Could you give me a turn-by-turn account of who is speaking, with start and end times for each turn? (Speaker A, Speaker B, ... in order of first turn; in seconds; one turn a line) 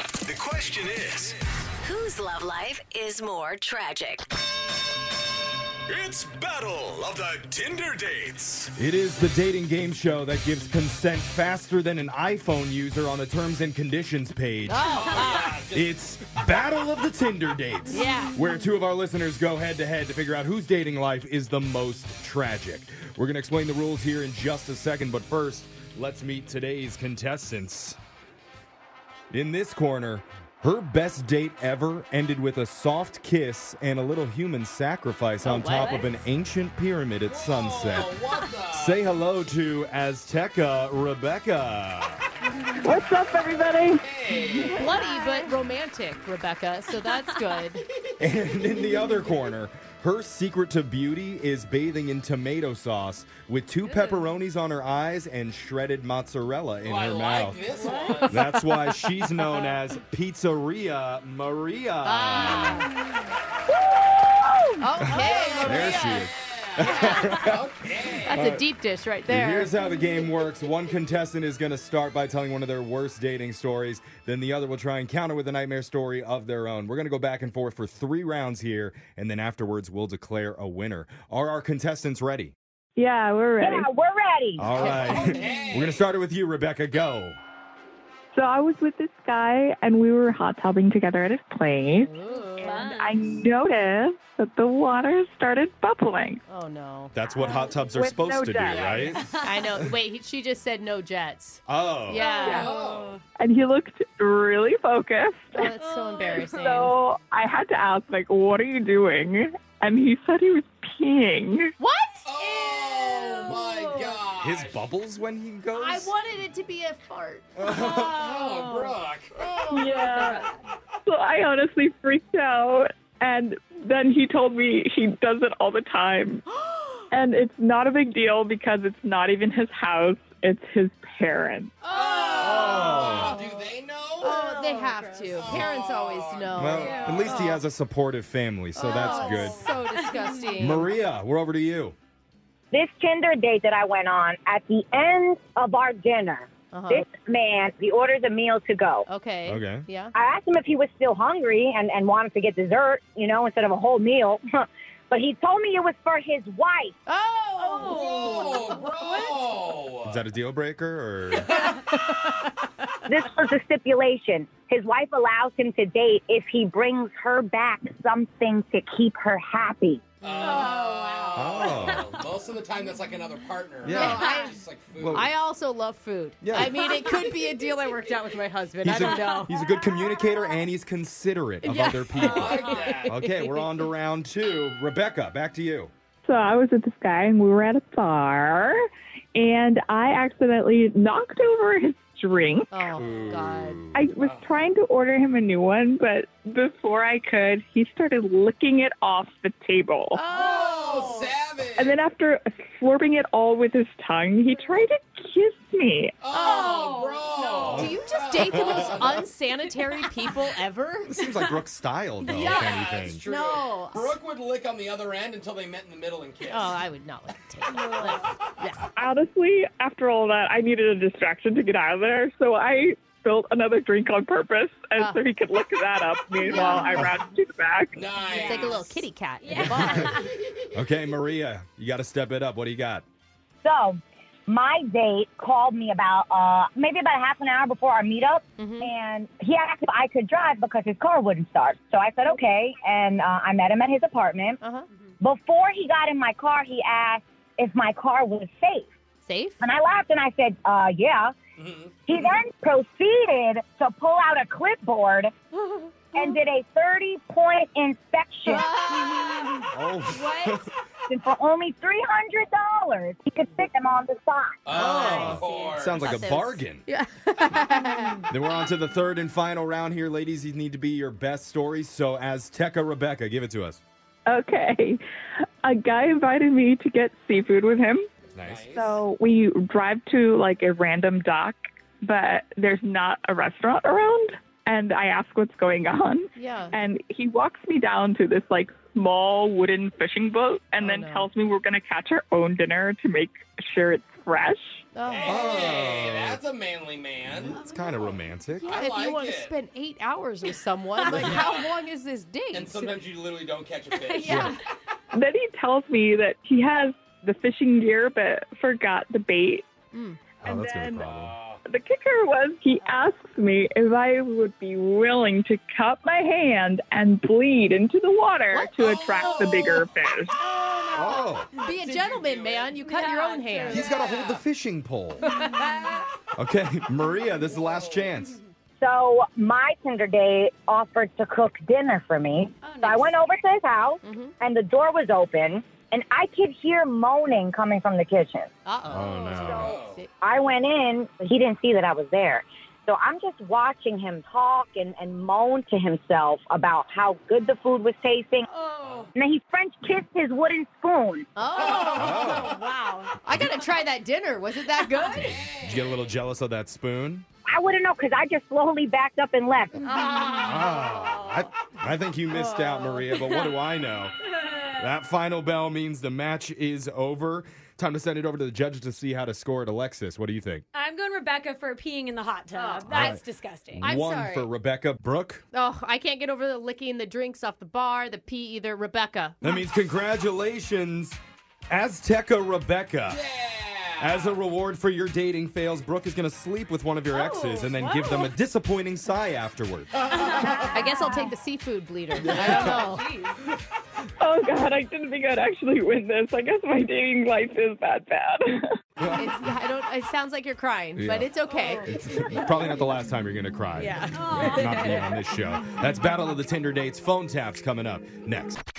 Speaker A: 0.2-1.4
Speaker B: 1.8-4.2
Speaker A: 5.8-8.7
Speaker C: 8.8-28.0
Speaker D: 14.7-15.6
Speaker E: 14.8-16.8
Speaker D: 17.9-18.4
Speaker C: 29.3-38.2
Speaker D: 35.4-36.2
Speaker E: 37.2-39.0
Speaker C: 38.7-42.2
Speaker F: 42.8-44.9
Speaker E: 44.0-44.9
Speaker D: 44.7-47.9
Speaker G: 44.9-45.5
Speaker G: 47.1-47.6
Speaker C: 48.2-57.6
Speaker E: 56.8-58.4
Speaker G: 57.8-58.4
Speaker C: 58.2-62.9
Speaker D: 62.0-62.9
Speaker D: 64.8-67.3
Speaker C: 65.0-67.6
Speaker E: 65.2-68.4
Speaker D: 68.2-69.7
Speaker C: 68.3-68.7
Speaker C: 69.3-82.5
Speaker F: 83.0-83.9
Speaker H: 83.6-84.7
Speaker C: 84.6-87.4
Speaker E: 84.7-86.0
Speaker F: 88.3-96.4
Speaker D: 92.0-92.9
Speaker G: 92.3-93.3
Speaker D: 96.5-97.1
Speaker C: 97.1-99.9
Speaker F: 97.9-99.1
Speaker E: 98.7-99.1
Speaker G: 99.0-99.7
Speaker D: 99.4-102.7
Speaker C: 101.7-102.2
Speaker F: 102.4-102.8
Speaker E: 102.4-103.2
Speaker G: 102.5-103.2
Speaker F: 103.3-105.7
Speaker D: 105.5-107.0
Speaker G: 105.8-106.6
Speaker F: 106.2-111.7
Speaker D: 111.8-112.2
Speaker E: 112.2-114.8
Speaker G: 112.4-114.2
Speaker C: 114.4-116.1
Speaker D: 115.7-117.5
Speaker E: 117.6-119.3
Speaker C: 117.6-118.1
Speaker G: 117.9-119.0
Speaker D: 119.3-120.0
Speaker F: 119.7-120.5
Speaker G: 119.8-120.5
Speaker F: 121.0-126.4
Speaker D: 126.5-127.1
Speaker F: 127.1-131.8
Speaker D: 131.8-133.6
Speaker E: 131.9-134.4
Speaker G: 132.3-133.3
Speaker C: 132.4-133.4
Speaker D: 134.2-137.6
Speaker G: 134.3-135.3
Speaker E: 135.3-137.3
Speaker C: 136.5-139.7
Speaker G: 136.8-137.4
Speaker D: 138.8-140.9
Speaker G: 138.8-140.6
Speaker C: 140.6-141.9
Speaker H: 142.7-149.0
Speaker D: 146.7-147.1
Speaker D: 149.1-150.1
Speaker C: 149.4-149.8
Speaker H: 150.1-154.4
Speaker H: 155.1-156.9
Speaker D: 157.1-158.8
Speaker G: 157.6-159.7
Speaker E: 157.7-160.3
Speaker C: 160.0-161.5
Speaker H: 163.1-170.1
Speaker E: 170.2-175.3
Speaker G: 170.3-172.3
Speaker C: 171.3-172.1
Speaker C: 173.8-174.4
Speaker D: 173.9-174.6
Speaker C: 174.9-175.3
Speaker D: 175.1-179.6
Speaker C: 176.4-176.8
Speaker C: 178.8-185.9
Speaker G: 179.0-179.4
Speaker D: 181.6-183.7
Speaker E: 182.1-183.4
Speaker F: 186.2-188.8
Speaker F: 189.3-192.9
Speaker D: 192.7-193.8
Speaker C: 193.0-194.1
Speaker E: 193.0-193.4
Speaker F: 193.9-200.2
Speaker E: 194.2-194.4
Speaker D: 200.1-201.2
Speaker E: 200.3-202.0
Speaker G: 200.3-201.2
Speaker F: 201.8-206.3
Speaker E: 206.2-209.3
Speaker D: 206.3-206.7
Speaker G: 206.3-207.8
Speaker D: 207.5-211.2
Speaker C: 207.6-209.2
Speaker C: 211.1-213.2
Speaker E: 212.2-216.8
Speaker G: 212.4-212.7
Speaker D: 213.2-214.2
Speaker D: 216.5-218.9
Speaker G: 217.8-218.3
Speaker F: 218.9-228.0
Speaker D: 226.5-227.1
Speaker E: 227.9-229.0
Speaker G: 228.2-228.8
Speaker D: 228.4-230.2
Speaker G: 229.4-230.3
Speaker C: 229.5-230.2
Speaker C: 230.7-233.0
Speaker H: 233.6-244.6
Speaker D: 238.6-238.9
Speaker D: 244.6-244.8
Speaker H: 245.2-248.9
Speaker D: 249.2-249.6
Speaker H: 249.6-251.3
Speaker E: 251.6-252.2
Speaker H: 252.1-255.3
Speaker H: 256.1-258.6
Speaker D: 258.4-259.7
Speaker G: 258.8-260.6
Speaker C: 259.7-260.7
Speaker H: 261.1-264.6
Speaker E: 264.6-266.1
Speaker D: 264.7-268.2
Speaker C: 264.8-266.8
Speaker C: 268.3-273.8
Speaker F: 274.3-275.0
Speaker F: 275.6-278.1
Speaker C: 278.3-278.6
Speaker E: 278.4-279.0
Speaker F: 278.6-294.9
Speaker D: 286.4-286.8
Speaker D: 290.8-291.3
Speaker D: 294.9-295.7
Speaker E: 295.0-299.5
Speaker C: 295.2-296.4
Speaker C: 297.3-298.8
Speaker G: 297.5-298.1
Speaker D: 298.6-302.9
Speaker E: 301.0-301.9
Speaker G: 301.0-301.4
Speaker E: 302.5-304.6
Speaker G: 303.9-304.7
Speaker C: 304.2-304.6
Speaker F: 305.1-309.6
Speaker D: 309.9-310.2
Speaker F: 310.4-311.1
Speaker C: 310.4-311.3
Speaker E: 311.0-311.6
Speaker F: 311.6-320.3
Speaker E: 318.8-319.9
Speaker G: 320.4-321.8
Speaker C: 320.9-321.5
Speaker D: 321.6-324.0
Speaker E: 321.8-322.8
Speaker G: 322.7-324.2
Speaker C: 323.7-325.2
Speaker E: 324.0-324.4
Speaker G: 325.2-325.8
Speaker C: 326.3-328.4
Speaker E: 327.3-328.2
Speaker H: 328.8-338.5
Speaker G: 332.6-333.2
Speaker D: 334.0-334.3
Speaker D: 338.6-340.1
Speaker C: 338.9-339.7
Speaker G: 339.0-339.5
Speaker H: 339.2-348.4
Speaker E: 339.5-340.0
Speaker G: 348.5-349.1
Speaker E: 348.8-349.1
Speaker H: 349.1-351.3
Speaker D: 351.4-352.4
Speaker E: 351.5-352.3
Speaker G: 351.7-353.2
Speaker C: 351.9-352.6
Speaker D: 353.2-355.4
Speaker C: 353.3-353.5
Speaker G: 354.8-355.3
Speaker C: 355.2-357.2
Speaker E: 355.2-356.2
Speaker H: 357.5-359.9
Speaker G: 359.8-361.5
Speaker C: 360.4-370.6
Speaker G: 362.5-363.5
Speaker G: 370.7-373.8
Speaker D: 372.5-373.2
Speaker C: 372.9-375.4
Speaker D: 373.8-374.5
Speaker D: 375.5-379.4
Speaker C: 379.4-381.2
Speaker C: 381.7-383.2
Speaker E: 383.1-384.4
Speaker C: 384.0-390.0
Speaker G: 387.1-388.3
Speaker E: 390.0-390.9
Speaker G: 390.2-391.0
Speaker D: 390.6-393.1
Speaker C: 392.2-392.9
Speaker G: 392.2-393.4
Speaker F: 394.2-398.6
Speaker C: 399.0-399.4
Speaker D: 399.1-401.9
Speaker C: 400.9-408.6
Speaker G: 401.5-402.6
Speaker G: 403.8-405.1